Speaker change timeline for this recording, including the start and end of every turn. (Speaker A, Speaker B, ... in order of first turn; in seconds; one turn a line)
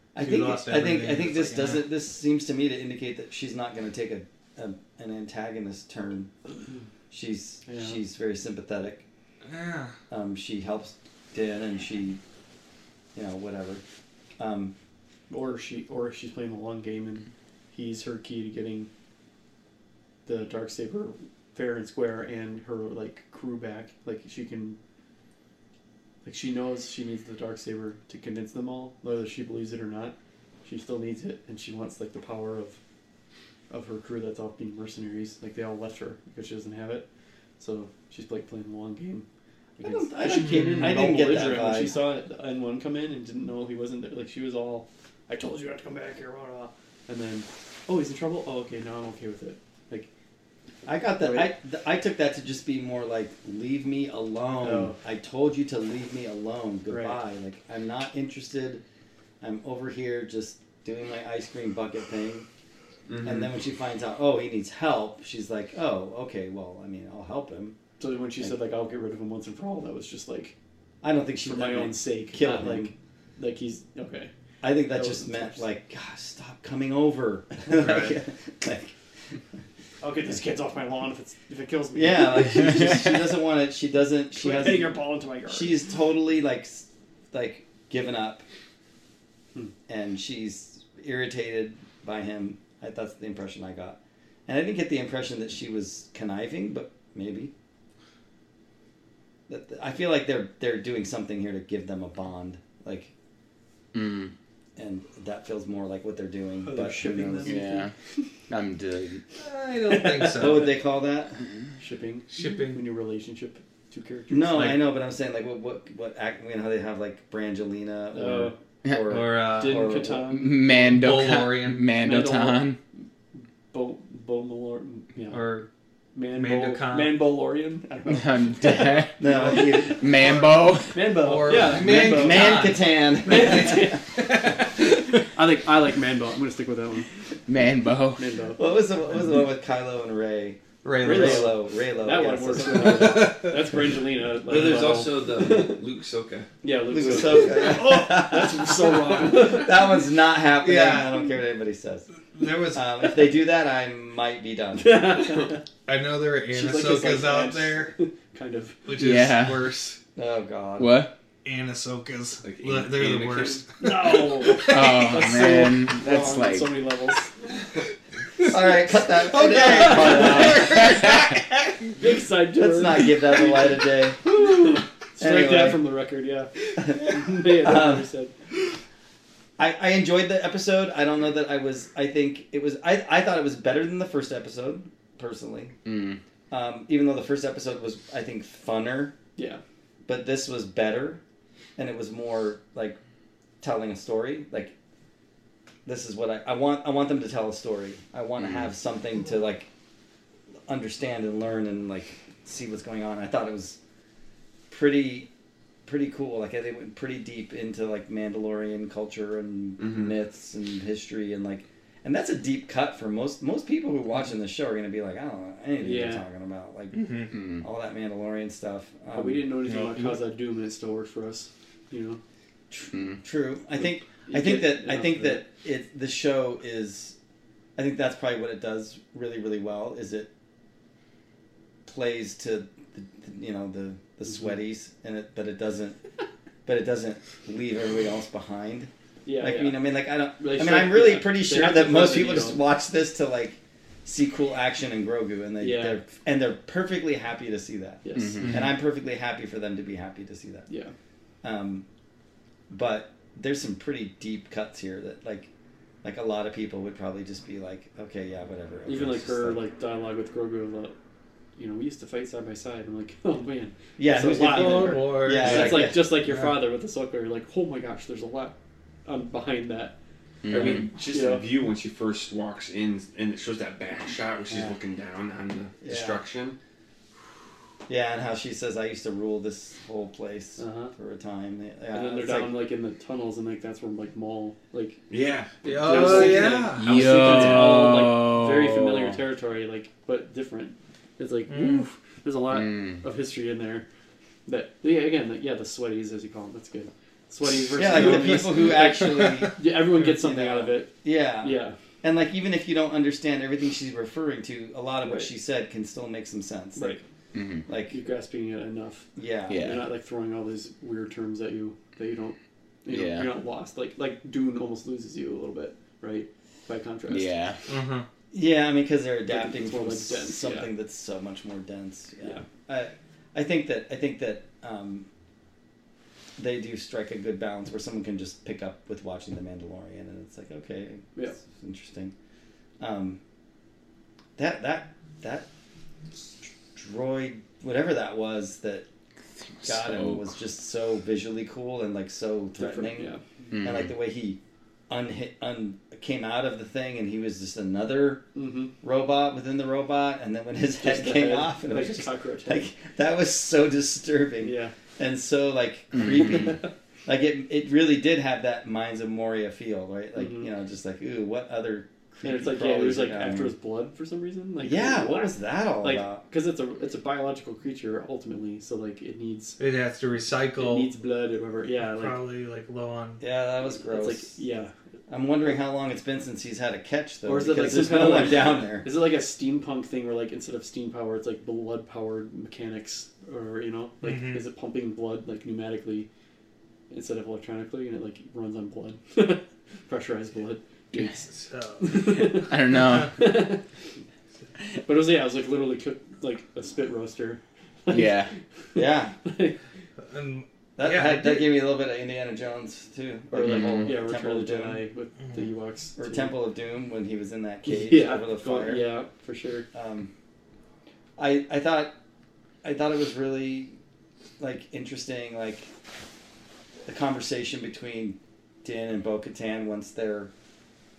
Speaker A: 0.1-6.3
Speaker B: 0.2-1.8
Speaker A: 7.1-9.0
Speaker C: 7.7-8.0
Speaker B: 9.4-9.9
Speaker A: 10.1-12.2
Speaker A: 13.1-13.8
Speaker A: 14.4-14.7
Speaker C: 15.3-18.9
Speaker C: 20.2-24.8
Speaker C: 26.2-32.8
Speaker C: 33.7-37.0
Speaker C: 37.6-39.2
Speaker A: 39.8-42.0
Speaker C: 39.8-50.1
Speaker B: 40.4-41.1
Speaker A: 50.9-58.8
Speaker C: 51.2-51.5
Speaker C: 54.6-55.0
Speaker C: 56.9-57.2
Speaker A: 59.4-62.5
Speaker D: 63.1-63.5
Speaker A: 63.2-67.8
Speaker C: 68.0-70.5
Speaker A: 71.0-72.9
Speaker C: 71.4-74.3
Speaker A: 74.6-78.9
Speaker C: 74.9-75.6
Speaker B: 77.7-78.1
Speaker C: 80.0-83.0
Speaker A: 81.9-84.9
Speaker C: 84.3-85.7
Speaker A: 85.5-88.4
Speaker A: 89.9-97.5
Speaker A: 99.5-103.1
Speaker E: 103.9-104.3
Speaker A: 104.8-107.6
Speaker C: 106.6-107.9
Speaker E: 107.4-107.9
Speaker E: 108.5-109.2
Speaker B: 109.4-110.7
Speaker C: 109.9-110.7
Speaker A: 110.3-111.4
Speaker C: 111.8-114.8
Speaker B: 112.3-112.8
Speaker A: 114.3-120.2
Speaker C: 118.1-118.5
Speaker B: 119.1-120.0
Speaker C: 119.5-120.8
Speaker E: 120.2-122.8
Speaker B: 120.7-121.9
Speaker C: 122.0-122.7
Speaker C: 123.7-125.6
Speaker B: 125.3-125.7
Speaker C: 126.1-132.7
Speaker B: 126.3-127.2
Speaker E: 128.1-131.2
Speaker A: 129.2-130.3
Speaker B: 131.2-134.8
Speaker A: 131.5-134.0
Speaker C: 133.2-134.2
Speaker C: 135.2-137.1
Speaker E: 137.5-138.2
Speaker C: 138.2-138.6
Speaker A: 138.6-143.3
Speaker B: 140.8-141.5
Speaker C: 141.0-145.8
Speaker B: 142.6-143.8
Speaker D: 144.5-146.5
Speaker B: 144.5-145.0
Speaker C: 146.6-149.7
Speaker A: 146.9-152.1
Speaker B: 150.6-151.2
Speaker B: 152.3-153.2
Speaker A: 152.7-155.1
Speaker C: 154.8-155.6
Speaker B: 155.8-157.9
Speaker C: 156.5-158.9
Speaker B: 158.8-160.0
Speaker E: 158.9-159.7
Speaker A: 160.2-161.1
Speaker E: 160.8-161.1
Speaker B: 161.4-165.0
Speaker D: 162.4-163.6
Speaker C: 163.8-167.3
Speaker E: 164.6-166.8
Speaker A: 168.4-171.0
Speaker B: 169.1-171.9
Speaker C: 170.0-170.7
Speaker C: 172.0-178.3
Speaker A: 172.5-174.3
Speaker A: 175.2-175.8
Speaker A: 176.8-178.1
Speaker A: 179.6-185.7
Speaker E: 185.8-186.2
Speaker A: 186.5-189.2
Speaker A: 190.1-191.2
Speaker A: 191.8-193.0
Speaker A: 193.6-194.7
Speaker A: 195.8-199.7
Speaker A: 200.7-203.8
Speaker A: 204.7-205.3
Speaker A: 205.8-219.5
Speaker D: 209.8-210.1
Speaker C: 215.8-216.2
Speaker B: 216.9-217.3
Speaker E: 217.3-217.6
Speaker C: 219.1-222.2
Speaker B: 219.7-220.2
Speaker A: 222.7-227.2
Speaker C: 223.8-225.4
Speaker A: 227.8-230.3
Speaker A: 231.8-236.0
Speaker C: 234.3-234.5
Speaker A: 236.6-250.7
Speaker C: 239.2-242.6
Speaker C: 245.6-246.0
Speaker C: 248.0-248.5
Speaker E: 248.1-248.7
Speaker C: 250.7-250.9
Speaker A: 251.4-251.8
Speaker A: 252.7-255.5
Speaker A: 256.0-259.6
Speaker C: 258.8-260.9
Speaker C: 261.6-268.5
Speaker A: 264.0-266.1
Speaker B: 264.3-266.5
Speaker C: 269.1-269.9
Speaker E: 270.4-270.9
Speaker C: 270.5-271.5
Speaker D: 270.5-276.6
Speaker A: 275.8-276.2
Speaker A: 277.9-282.6
Speaker C: 280.6-280.9
Speaker C: 281.9-285.0
Speaker D: 285.1-288.0
Speaker C: 285.6-293.9
Speaker B: 285.6-286.8
Speaker E: 286.8-289.2
Speaker B: 291.5-291.9
Speaker E: 292.5-293.0
Speaker C: 294.4-301.8
Speaker A: 297.7-307.0
Speaker B: 298.8-299.5
Speaker C: 305.0-305.3
Speaker C: 306.8-307.0
Speaker E: 307.3-307.6
Speaker A: 307.6-308.0
Speaker C: 307.9-317.3
Speaker A: 309.1-309.8
Speaker E: 309.5-309.9
Speaker E: 312.9-313.3
Speaker E: 317.1-317.6
Speaker B: 317.7-318.1
Speaker A: 318.3-325.1
Speaker C: 319.3-320.7
Speaker A: 326.4-332.1
Speaker A: 332.8-333.2
Speaker A: 334.4-335.5
Speaker A: 336.7-338.9
Speaker E: 339.6-340.3
Speaker A: 339.6-348.2
Speaker C: 342.6-343.2
Speaker E: 343.5-343.9
Speaker C: 348.3-348.7
Speaker A: 348.8-363.5
Speaker C: 350.8-352.7
Speaker C: 354.4-354.7
Speaker E: 355.9-356.4
Speaker C: 360.1-360.5
Speaker C: 362.2-369.6
Speaker A: 364.6-366.2
Speaker B: 369.6-370.9
Speaker C: 370.6-372.2
Speaker B: 371.8-373.2
Speaker A: 373.2-374.4
Speaker C: 373.8-374.7
Speaker A: 375.1-378.9
Speaker C: 377.2-386.1
Speaker B: 384.0-384.4
Speaker C: 386.9-393.6
Speaker B: 391.3-392.3
Speaker E: 392.0-393.2
Speaker C: 394.8-399.6
Speaker E: 397.9-398.3
Speaker A: 398.7-399.1
Speaker B: 400.1-401.5
Speaker A: 400.8-404.8
Speaker C: 403.3-406.3
Speaker E: 403.4-403.9
Speaker A: 406.0-408.8
Speaker C: 407.6-409.7
Speaker A: 409.7-410.1
Speaker A: 411.2-411.9
Speaker A: 412.6-413.8
Speaker A: 414.4-415.7
Speaker A: 416.9-420.3